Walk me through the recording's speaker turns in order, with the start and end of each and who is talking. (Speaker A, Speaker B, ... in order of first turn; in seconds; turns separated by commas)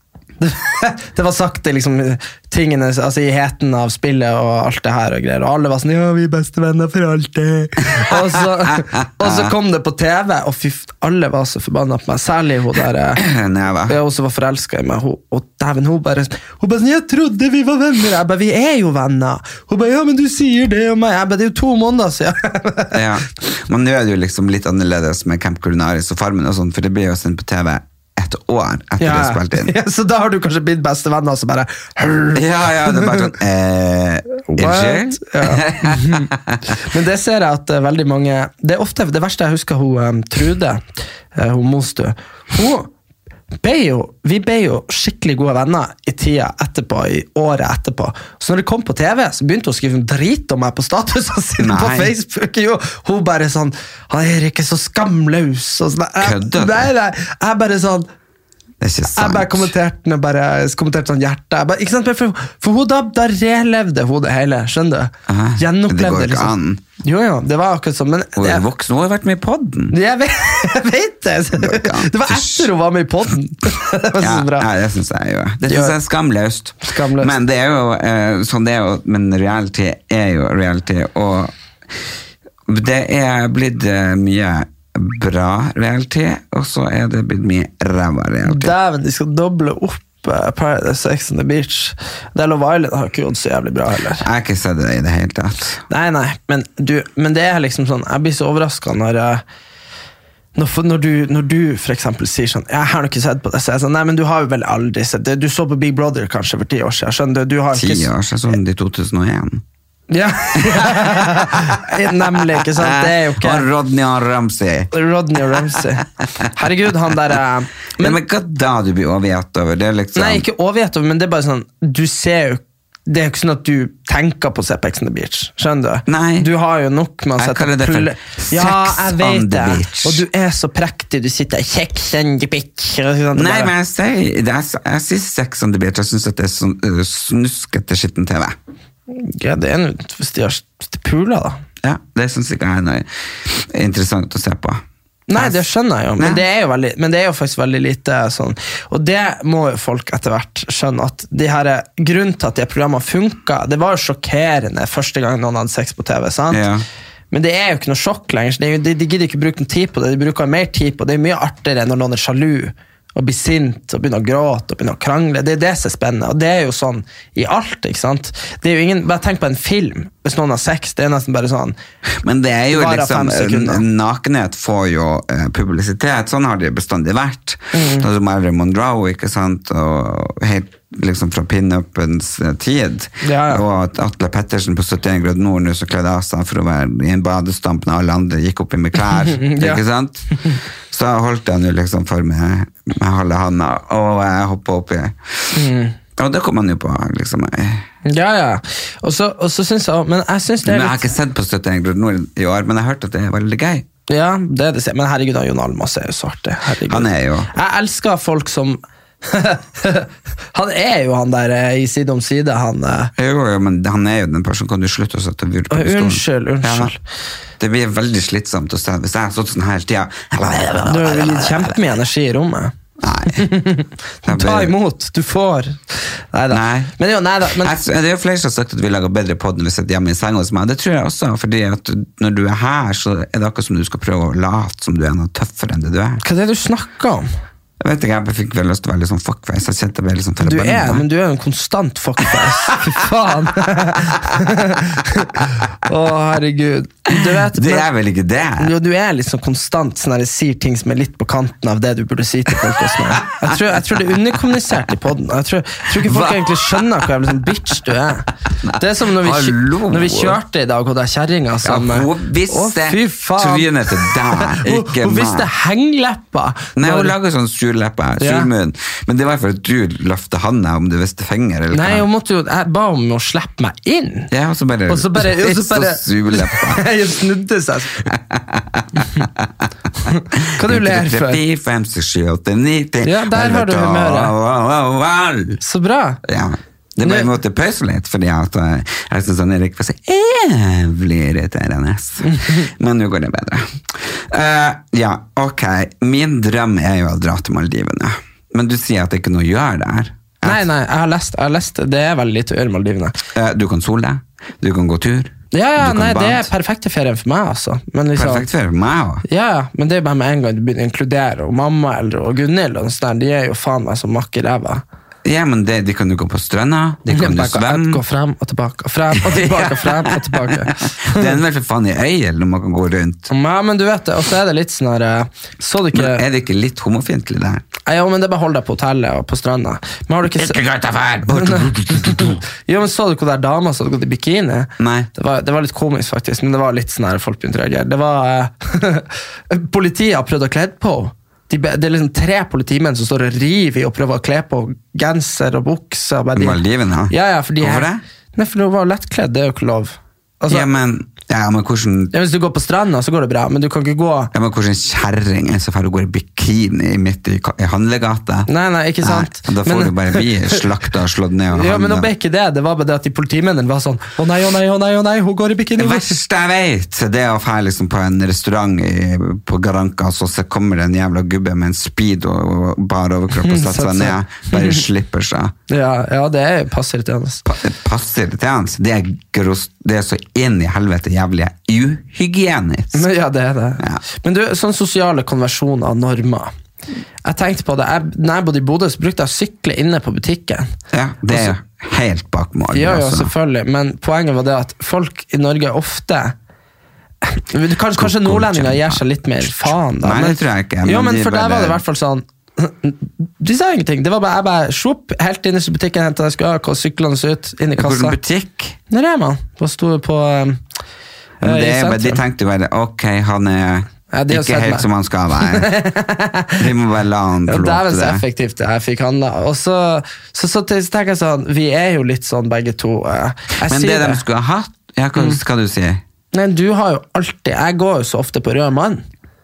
Speaker A: 0.4-13.2, Speaker B: 9.2-9.5, Speaker B: 13.2-13.9, Speaker A: 13.9-23.0, Speaker B: 22.9-29.7, Speaker A: 29.0-33.3, Speaker B: 32.3-36.6, Speaker A: 34.5-36.3, Speaker A: 36.8-40.8, Speaker A: 41.3-42.9, Speaker A: 43.6-58.1, Speaker B: 51.6-52.1, Speaker B: 56.2-56.9, Speaker B: 58.8-59.7, Speaker A: 59.1-68.6, Speaker B: 65.3-66.8, Speaker B: 68.4-70.0, Speaker A: 69.9-74.7, Speaker B: 71.6-72.7, Speaker B: 74.2-81.5, Speaker A: 75.7-76.0, Speaker A: 76.8-77.3, Speaker B: 82.7-88.7, Speaker A: 88.4-94.2, Speaker B: 94.2-95.8, Speaker A: 95.9-99.4, Speaker A: 100.5-108.1, Speaker B: 107.7-109.6, Speaker A: 110.1-113.7, Speaker B: 110.5-114.9, Speaker A: 114.9-118.2, Speaker B: 118.0-120.4, Speaker A: 120.1-133.7, Speaker B: 126.1-126.5, Speaker B: 127.4-130.2, Speaker B: 133.3-138.6, Speaker A: 139.1-141.6, Speaker B: 141.8-144.8, Speaker A: 145.3-156.6, Speaker B: 145.3-145.7, Speaker B: 146.2-146.4, Speaker B: 156.5-156.8, Speaker A: 157.3-171.8, Speaker B: 172.2-195.6, Speaker A: 172.7-173.8, Speaker A: 177.7-178.1, Speaker A: 183.2-183.6, Speaker A: 189.3-189.8, Speaker A: 195.5-195.9, Speaker B: 196.2-197.9, Speaker A: 198.0-201.1, Speaker B: 200.6-203.8, Speaker A: 204.1-213.1, Speaker B: 206.9-207.5, Speaker B: 213.2-216.9, Speaker A: 215.7-217.0, Speaker B: 217.6-221.8, Speaker A: 220.8-222.7, Speaker B: 223.0-223.5, Speaker A: 223.3-227.7, Speaker B: 224.2-224.7, Speaker B: 226.5-226.9, Speaker B: 227.5-236.2, Speaker A: 236.2-237.3, Speaker B: 237.8-241.0, Speaker A: 240.4-247.9, Speaker B: 247.1-248.7, Speaker A: 248.6-267.1, Speaker B: 255.9-257.1, Speaker B: 258.6-260.4, Speaker B: 261.6-265.5, Speaker B: 266.8-272.1, Speaker A: 268.2-268.5, Speaker A: 271.7-274.3, Speaker B: 274.3-276.9, Speaker A: 274.9-278.1, Speaker B: 278.1-279.7, Speaker A: 280.1-281.4, Speaker B: 280.3-285.6, Speaker A: 283.0-284.3, Speaker A: 285.6-286.2, Speaker B: 286.2-300.6, Speaker A: 287.0-287.3, Speaker A: 292.3-292.6, Speaker A: 300.4-303.2, Speaker B: 303.3-306.5, Speaker A: 305.5-308.5, Speaker B: 308.1-309.2, Speaker A: 309.2-314.8, Speaker B: 315.2-318.0, Speaker A: 317.1-321.4, Speaker B: 319.1-323.3, Speaker A: 323.3-326.2, Speaker B: 325.9-327.6, Speaker A: 327.9-330.6, Speaker B: 330.4-332.4, Speaker A: 331.3-350.7, Speaker B: 334.8-335.1, Speaker B: 346.3-348.0, Speaker B: 350.5-352.1, Speaker A: 352.1-354.3, Speaker B: 354.3-358.5, Speaker A: 358.5-360.6, Speaker B: 359.0-362.1, Speaker A: 361.5-366.2, Speaker B: 365.8-375.5, Speaker A: 373.4-374.8, Speaker A: 375.7-377.4, Speaker B: 377.4-383.1, Speaker A: 382.9-386.5, Speaker A: 387.2-390.7, Speaker B: 390.9-393.3, Speaker A: 391.3-391.5, Speaker A: 392.7-396.3, Speaker A: 397.2-408.2, Speaker B: 397.9-401.8, Speaker B: 407.8-408.8, Speaker A: 408.9-410.6, Speaker B: 411.4-415.8, Speaker A: 411.4-412.2, Speaker A: 414.1-414.9, Speaker A: 415.4-416.6, Speaker B: 416.6-418.2, Speaker A: 417.5-424.2, Speaker B: 423.6-426.0, Speaker A: 426.3-429.0